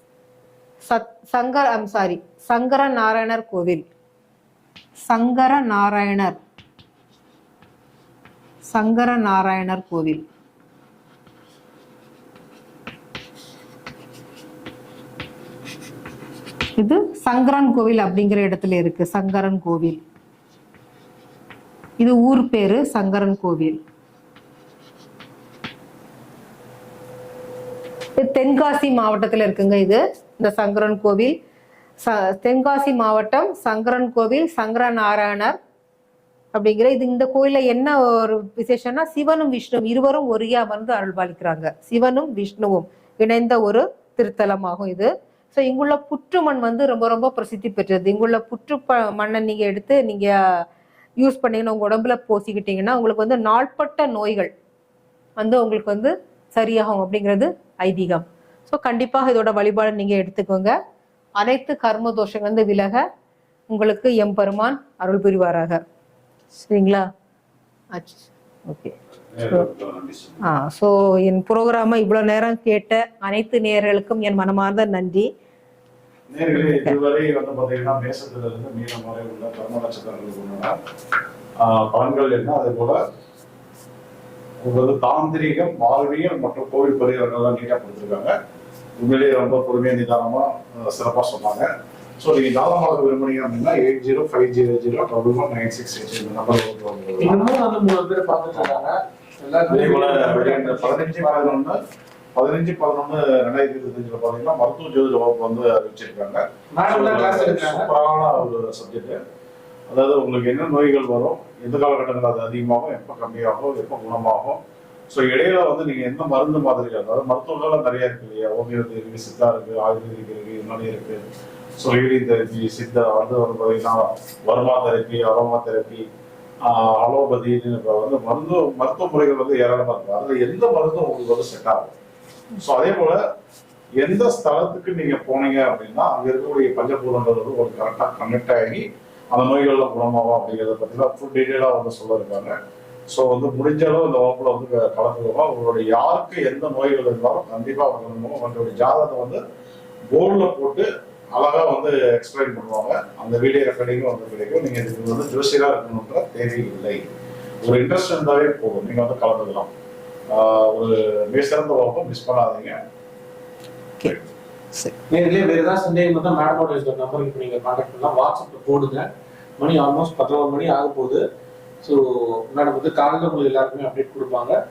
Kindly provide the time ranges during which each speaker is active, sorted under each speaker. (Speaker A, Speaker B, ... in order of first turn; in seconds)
Speaker A: 0.8-3.8, 5.0-6.3, 8.7-10.2, 16.8-20.0, 22.0-23.8, 28.2-31.3, 32.0-35.5, 36.5-50.3, 51.2-54.5, 55.4-60.7, 61.4-63.0, 63.7-65.8, 66.5-67.0, 67.9-68.9, 70.4-75.3, 76.5-77.0
Speaker B: 69.3-70.4, 76.3-80.8, 81.6-83.0, 84.6-88.3, 89.0-97.5, 99.7-101.8, 102.3-109.2, 109.9-121.2, 121.8-126.1, 126.6-131.9, 132.6-133.2, 134.0-142.6, 143.1-149.4, 150.1-157.1, 157.6-159.7, 160.3-162.8
Speaker C: 97.2-101.6, 106.7-107.9, 165.1-169.0, 169.6-171.2, 171.8-174.6